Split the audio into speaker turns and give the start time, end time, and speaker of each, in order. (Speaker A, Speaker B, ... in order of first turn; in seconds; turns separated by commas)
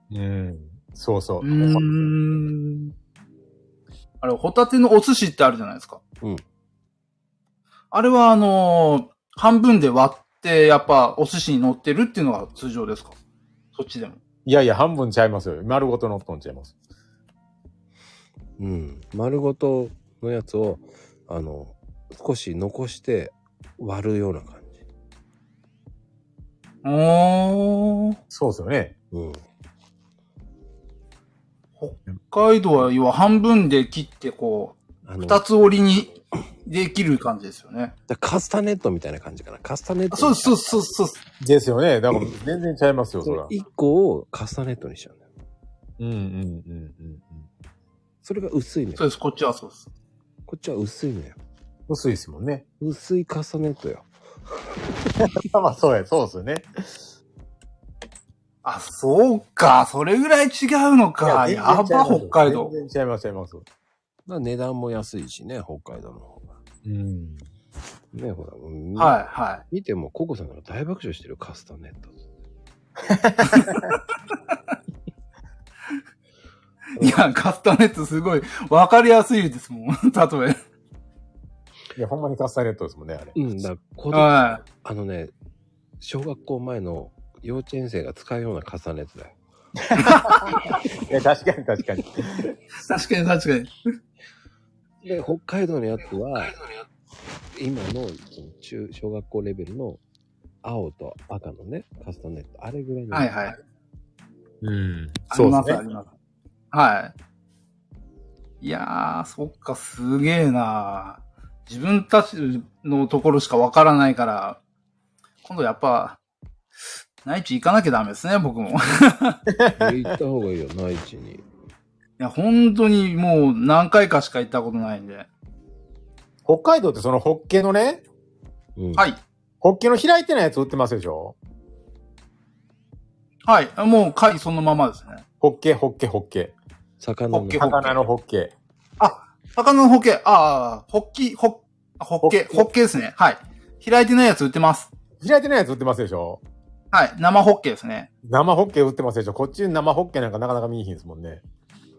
Speaker A: 0.1-2.1, Speaker B: 1.4-2.9, Speaker B: 4.2-6.0, Speaker B: 7.9-13.2, Speaker B: 13.7-14.2, Speaker A: 14.4-16.7, Speaker C: 18.6-24.8, Speaker B: 26.8-28.2, Speaker A: 28.3-28.9, Speaker C: 29.1-29.4, Speaker B: 31.8-36.1, Speaker C: 35.0-35.4, Speaker B: 36.6-37.9, Speaker C: 38.1-40.6, Speaker B: 40.1-41.2, Speaker A: 41.4-43.5, Speaker C: 43.2-45.2, Speaker A: 46.0-47.5, Speaker C: 48.2-49.0, Speaker B: 49.0-49.9, Speaker C: 50.5-51.4, Speaker A: 51.9-52.6, Speaker C: 52.8-54.1, Speaker A: 55.2-57.0, Speaker B: 58.6-62.7, Speaker A: 61.2-63.6, Speaker C: 64.3-66.5, Speaker A: 66.8-67.5, Speaker C: 68.1-72.2, Speaker B: 69.0-69.6, Speaker A: 73.1-73.8, Speaker B: 73.4-74.0, Speaker B: 77.0-80.6, Speaker A: 81.9-83.4, Speaker C: 83.3-85.3, Speaker B: 84.1-84.6, Speaker C: 86.0-89.3, Speaker A: 89.8-92.5, Speaker B: 90.0-90.8, Speaker B: 92.8-93.7, Speaker C: 95.0-96.6, Speaker C: 97.5-100.0, Speaker C: 100.6-103.3, Speaker B: 103.1-103.5, Speaker A: 104.6-105.8, Speaker B: 105.3-106.1, Speaker B: 106.7-107.1, Speaker B: 108.6-114.6, Speaker B: 115.4-116.2, Speaker B: 117.2-119.4, Speaker A: 119.5-120.1, Speaker C: 119.7-121.4, Speaker B: 122.2-125.3, Speaker A: 126.5-128.0, Speaker C: 128.8-129.1, Speaker A: 129.6-131.3, Speaker B: 133.4-135.2, Speaker A: 135.4-136.5, Speaker C: 137.0-137.7, Speaker B: 137.3-138.0, Speaker A: 137.6-138.5, Speaker B: 139.0-144.9, Speaker A: 142.2-142.7, Speaker A: 145.2-146.4, Speaker B: 146.9-148.1, Speaker A: 148.2-151.4